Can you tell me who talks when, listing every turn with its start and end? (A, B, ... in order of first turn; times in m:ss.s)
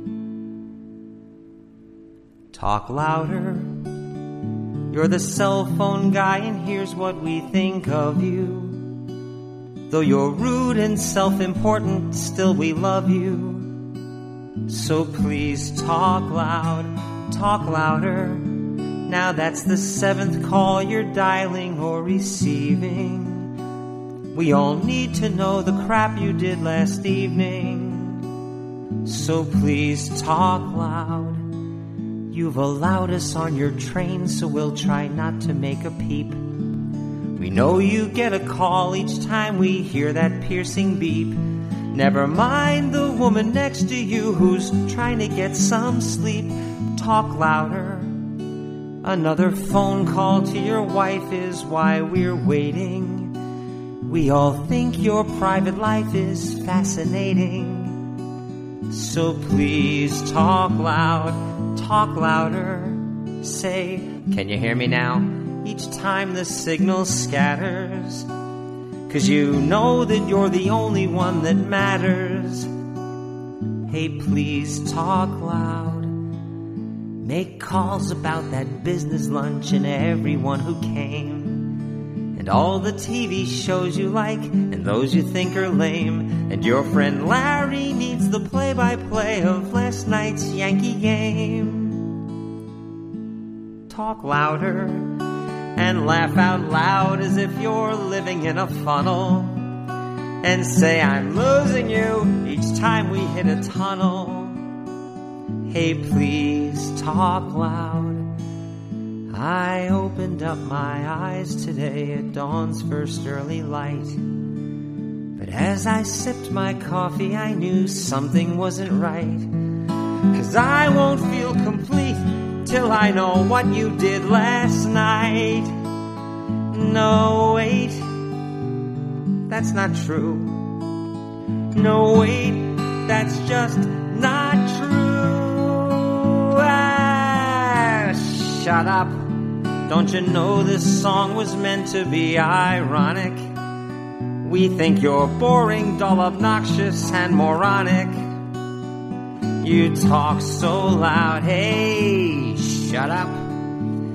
0:02.5-0:04.1 A
0:04.9-0:09.0 A
0:09.9-0:13.8 A
0:14.7-0:23.5 A
0:24.3-0:28.3 A
0:29.0-0:31.6 A
0:32.3-0:48.4 A
0:49.0-0:53.4 A
0:54.0-0:58.1 A
0:58.9-1:08.3 A
1:09.1-1:12.7 A
1:13.9-1:16.2 A
1:17.2-1:32.2 A
1:33.9-1:39.8 A
1:40.4-1:44.6 A
1:45.7-1:48.3 A
1:49.3-1:54.3 A
1:55.4-2:05.7 A
2:06.7-2:08.3 A
2:09.5-2:10.8 A
2:11.7-2:23.4 A
2:24.4-2:28.1 A
2:29.6-2:33.9 A